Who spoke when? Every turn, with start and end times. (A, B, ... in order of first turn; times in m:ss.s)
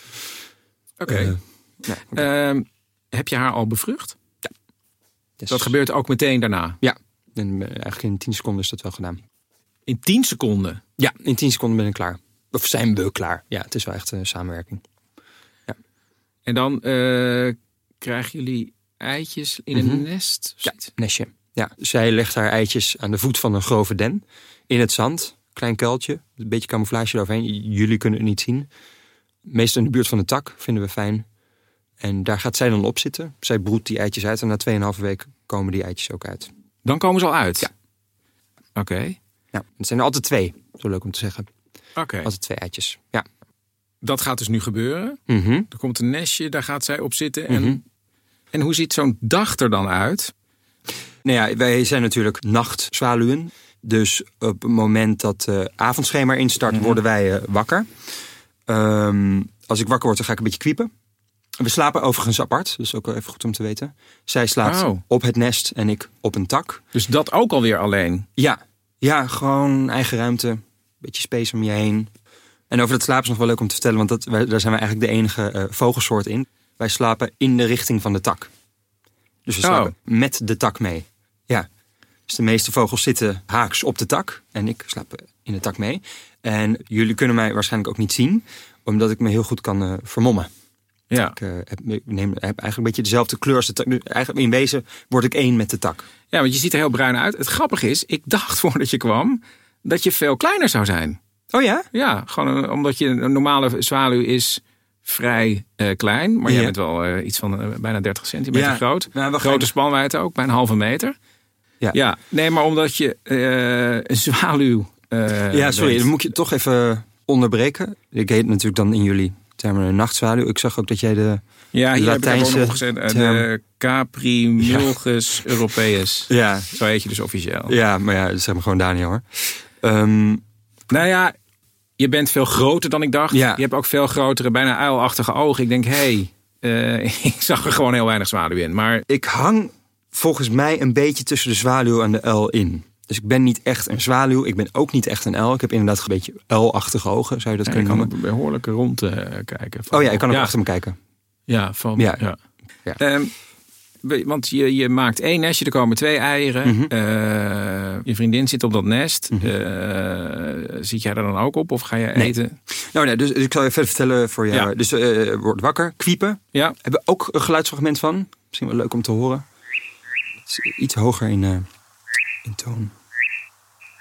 0:01.0-0:01.4 A
0:01.1-0:02.2 B
0:02.1-0:04.2 A
0:05.4-0:05.7 B
0:05.5-0:06.8 A
0:06.8-0:09.2 B
0:09.8-0:10.8 A
0:11.0-0:14.8 B
0:16.4-0:20.9 A
0:19.7-0:20.0 B
0:20.6-0:28.7 B
0:29.4-0:31.2 B
0:32.0-0:36.5 B
0:36.8-0:37.7 A
0:38.7-0:39.2 A
0:39.5-0:41.5 B
0:42.0-0:42.3 A
0:42.2-0:43.2 B
0:44.0-0:47.8 A
0:45.3-0:45.7 B
0:47.5-0:47.8 B
0:48.5-0:50.3 A
0:51.2-0:57.9 B
0:56.7-0:57.0 A
0:58.7-1:00.9 B
1:01.6-1:06.8 B
1:04.6-1:05.0 A
1:06.9-1:08.2 A
1:08.4-1:12.1 B
1:12.7-1:18.5 B
1:19.4-1:21.7 B
1:19.6-1:19.9 A
1:22.3-1:30.5 B
1:31.1-1:31.4 A
1:31.3-1:36.0 B
1:36.3-1:41.2 A
1:41.5-1:41.8 B
1:41.9-1:51.1 A
1:46.4-1:46.7 B
1:48.5-1:49.7 B
1:51.9-1:56.1 A
1:55.5-2:01.4 B
2:01.7-2:07.7 A
2:01.9-2:03.4 B
2:04.6-2:04.9 B
2:06.3-2:06.7 B
2:07.7-2:10.4 B
2:10.9-2:11.3 A
2:12.0-2:19.0 A
2:13.3-2:13.6 B
2:19.1-2:28.1 B
2:27.6-2:30.5 A
2:29.9-2:31.0 B
2:31.5-2:32.4 A
2:32.0-2:32.2 B
2:33.0-2:33.3 A
2:34.0-2:42.6 A
2:36.6-2:36.9 B
2:42.2-2:49.4 B
2:50.5-2:51.6 B
2:52.4-2:52.9 B